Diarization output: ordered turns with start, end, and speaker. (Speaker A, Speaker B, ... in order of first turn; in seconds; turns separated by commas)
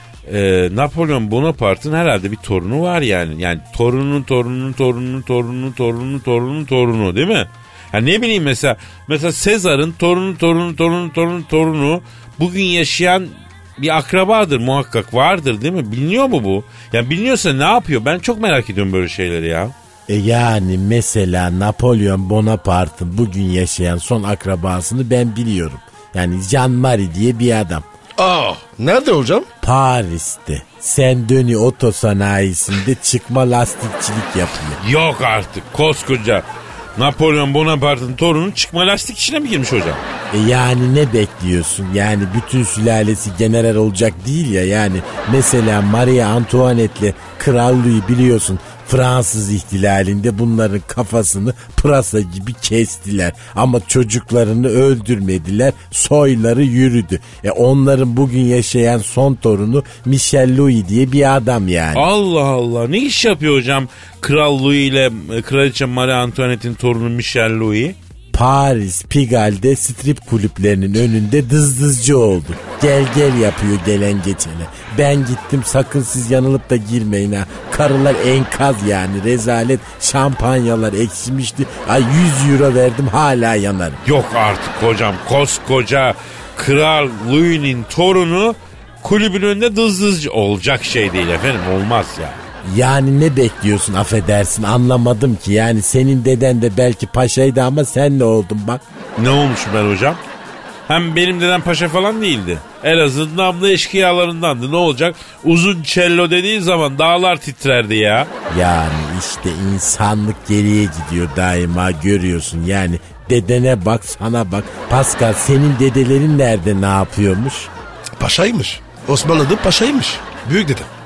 Speaker A: 0.3-19.7, Speaker B: 20.1-27.8, Speaker C: 28.2-29.5, Speaker B: 29.6-34.8, Speaker A: 34.8-36.4, Speaker A: 37.0-40.0, Speaker B: 40.3-62.0, Speaker A: 61.9-68.0, Speaker B: 68.3-84.0, Speaker A: 84.0-92.4, Speaker B: 92.6-98.8, Speaker A: 99.2-100.2, Speaker A: 100.9-108.3, Speaker B: 108.5-117.7, Speaker C: 118.2-120.9